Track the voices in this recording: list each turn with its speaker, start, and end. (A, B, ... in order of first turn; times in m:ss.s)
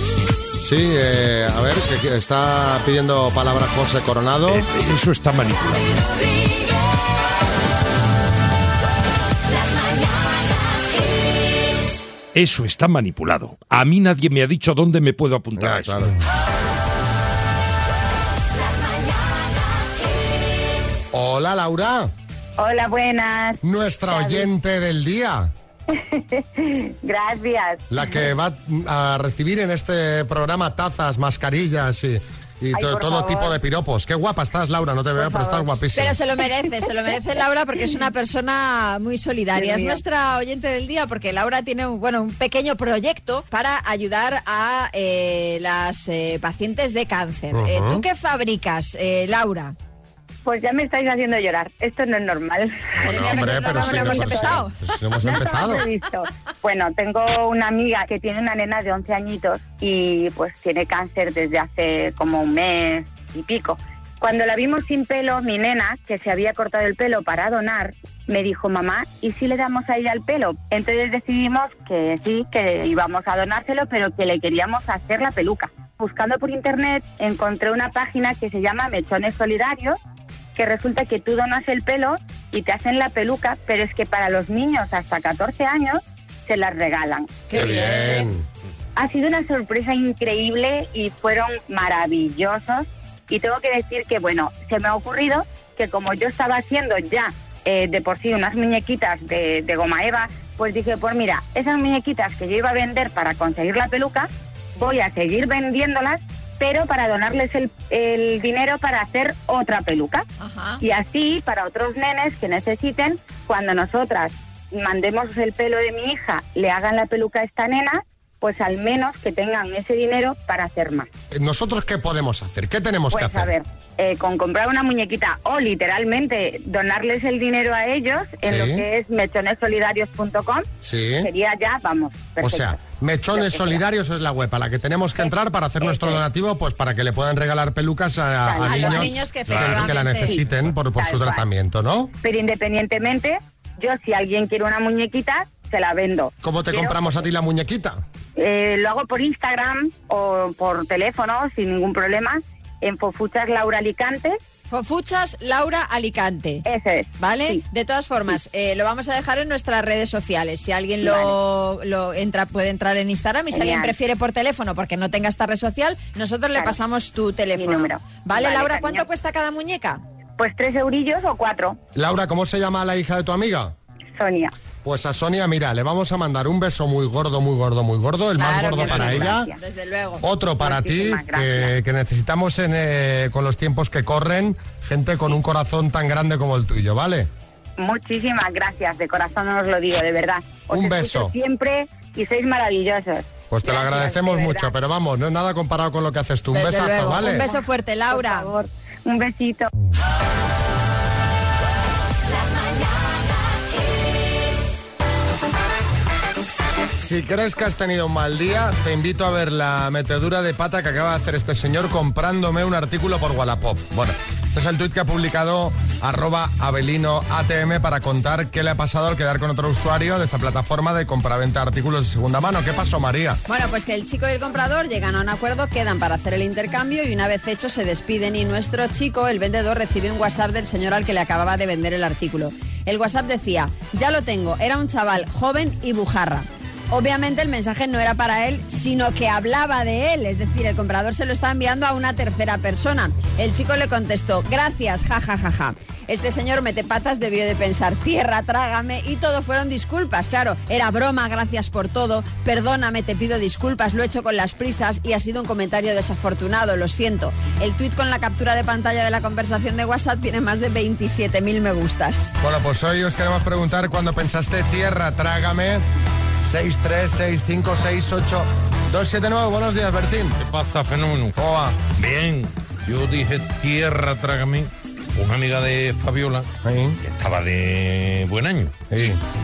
0:00.6-0:04.7 A
0:04.5-0:06.0 B
0:12.3-0:16.0 B
0:15.6-0:16.2 A
0:21.1-0:22.1 A
0:22.6-0:24.5 C
0:23.6-0:25.5 A
0:25.9-0:28.2 C
0:27.9-0:36.2 A
0:32.7-0:33.6 C
0:35.3-0:35.6 C
0:36.0-0:49.7 D
0:39.6-0:40.0 C
0:47.5-0:48.0 A
0:50.4-0:54.6 C
0:53.0-0:55.8 A
0:53.0-0:54.8 D
0:55.2-1:20.0 C
1:20.6-1:28.1 C
1:27.5-1:28.3 D
1:27.5-1:28.4 A
1:29.0-1:50.2 C
1:50.4-1:50.8 D
1:50.8-2:01.1 C
2:01.3-2:03.5 A
2:03.1-2:10.7 C
2:08.4-2:08.8 A
2:10.8-2:11.3 A
2:11.2-2:13.8 C
2:12.4-2:22.1 A
2:15.8-2:16.2 C
2:18.4-2:19.1 C
2:18.6-2:20.4 D
2:20.2-2:20.4 C
2:20.9-2:21.5 C
2:22.2-2:27.0 C
2:26.4-2:28.0 A
2:28.4-2:34.4 C
2:34.7-2:36.6 D
2:36.7-2:37.6 C
2:37.2-2:50.0 D
2:41.0-2:41.4 C
2:43.5-2:44.0 C
2:47.6-2:49.1 C
2:50.4-2:51.8 C
2:52.0-2:53.8 A
2:54.2-2:54.5 C
2:54.8-2:59.5 A
2:58.4-3:00.3 D
2:58.8-2:59.6 C
3:00.2-3:07.3 A
3:00.6-3:01.8 C
3:07.8-3:14.7 C
3:10.7-3:11.3 A
3:13.5-3:17.5 A
3:16.5-3:18.5 D
3:18.1-3:19.7 C
3:27.0-3:43.4 A
3:43.5-4:22.3 D
4:22.4-4:25.8 A
4:26.4-4:30.4 A
4:30.4-4:31.4 E
4:31.4-4:31.8 A
4:32.0-4:36.5 E
4:36.6-4:37.0 A
4:37.1-4:38.8 E
4:38.9-4:39.2 A